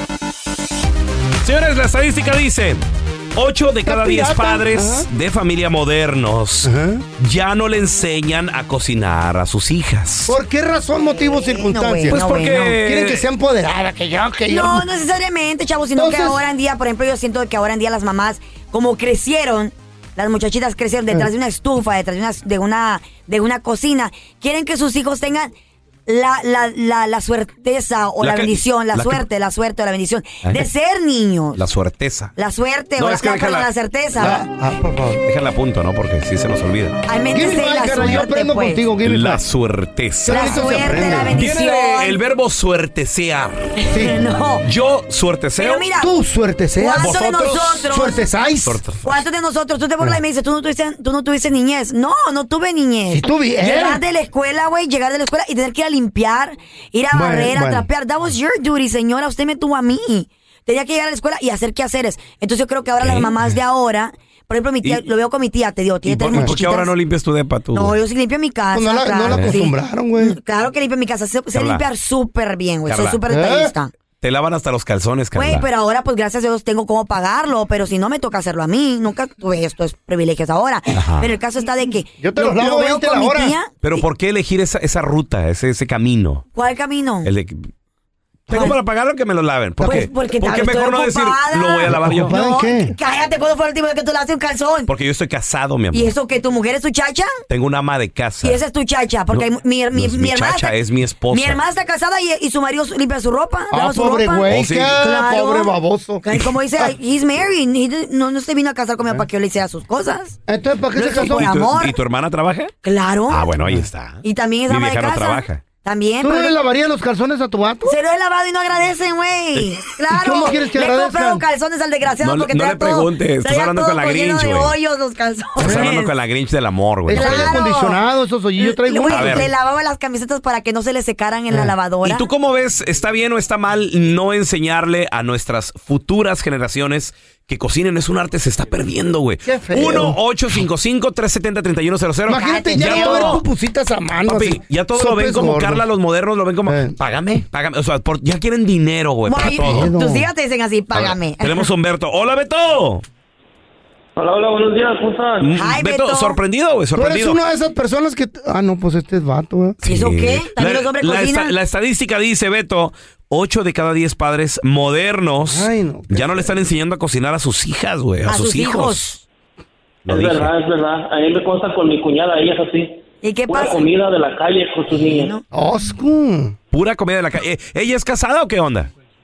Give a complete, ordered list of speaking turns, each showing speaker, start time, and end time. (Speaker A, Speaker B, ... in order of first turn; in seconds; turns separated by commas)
Speaker A: 1.4-2.8, Speaker A: 3.3-10.3, Speaker B: 3.9-5.0, Speaker B: 6.6-7.0, Speaker B: 10.3-14.8, Speaker C: 11.0-12.8, Speaker A: 12.1-13.2, Speaker C: 14.5-25.5, Speaker B: 15.9-16.4, Speaker C: 26.1-31.6, Speaker A: 28.2-29.2, Speaker A: 31.6-32.3, Speaker C: 32.4-34.5, Speaker A: 33.0-33.7, Speaker B: 34.2-35.2, Speaker A: 35.2-37.0, Speaker C: 37.0-38.8, Speaker B: 37.3-39.4, Speaker A: 39.0-43.7, Speaker B: 40.2-41.3, Speaker C: 40.3-42.2, Speaker C: 43.8-44.6, Speaker A: 44.6-45.9, Speaker C: 45.6-46.1, Speaker B: 46.0-47.1, Speaker C: 46.8-48.2, Speaker A: 47.0-47.9, Speaker B: 47.9-48.8, Speaker A: 48.6-49.2, Speaker C: 49.0-66.9, Speaker B: 53.1-54.0, Speaker B: 57.1-57.8, Speaker A: 63.0-63.5, Speaker A: 66.0-68.0, Speaker C: 67.7-73.9, Speaker B: 68.7-70.3, Speaker A: 69.3-69.5, Speaker A: 71.5-71.8, Speaker A: 72.9-73.2, Speaker B: 73.3-73.7, Speaker A: 74.2-75.7, Speaker C: 75.3-83.7, Speaker A: 80.9-81.3, Speaker B: 82.2-83.5, Speaker A: 83.8-86.4, Speaker C: 86.5-87.3, Speaker A: 87.2-87.7, Speaker A: 88.5-92.3, Speaker C: 88.5-88.8, Speaker C: 89.8-94.9, Speaker B: 91.9-92.9, Speaker A: 94.9-96.1, Speaker C: 95.9-97.4, Speaker A: 97.5-98.6, Speaker C: 98.4-100.8, Speaker A: 99.3-101.6, Speaker C: 101.3-110.4, Speaker B: 103.7-106.2, Speaker A: 104.5-105.0, Speaker B: 110.5-111.4, Speaker C: 110.9-112.0, Speaker A: 111.1-112.7, Speaker C: 112.8-113.5, Speaker A: 113.3-115.6, Speaker C: 114.2-116.5, Speaker B: 116.2-118.0, Speaker C: 117.8-126.1, Speaker B: 120.1-121.4, Speaker A: 122.2-124.7, Speaker A: 125.6-127.6, Speaker B: 125.6-125.9, Speaker B: 127.1-129.5, Speaker C: 127.1-128.0, Speaker C: 128.6-132.2, Speaker A: 129.1-129.4, Speaker A: 132.0-143.4, Speaker B: 139.4-140.2, Speaker B: 142.3-145.8, Speaker C: 142.4-143.4, Speaker A: 144.2-149.9, Speaker B: 146.7-146.9, Speaker C: 149.3-151.7, Speaker B: 149.7-150.3, Speaker A: 150.9-153.0, Speaker D: 154.2-155.5, Speaker A: 155.4-157.4, Speaker C: 155.5-156.4, Speaker B: 156.9-159.8, Speaker A: 159.8-169.2, Speaker C: 159.8-161.5, Speaker B: 165.4-166.6, Speaker C: 168.3-169.2, Speaker A: 170.1-170.5, Speaker D: 170.1-175.4, Speaker C: 173.2-173.9, Speaker C: 174.9-175.4, Speaker B: 175.5-176.5, Speaker A: 176.7-178.9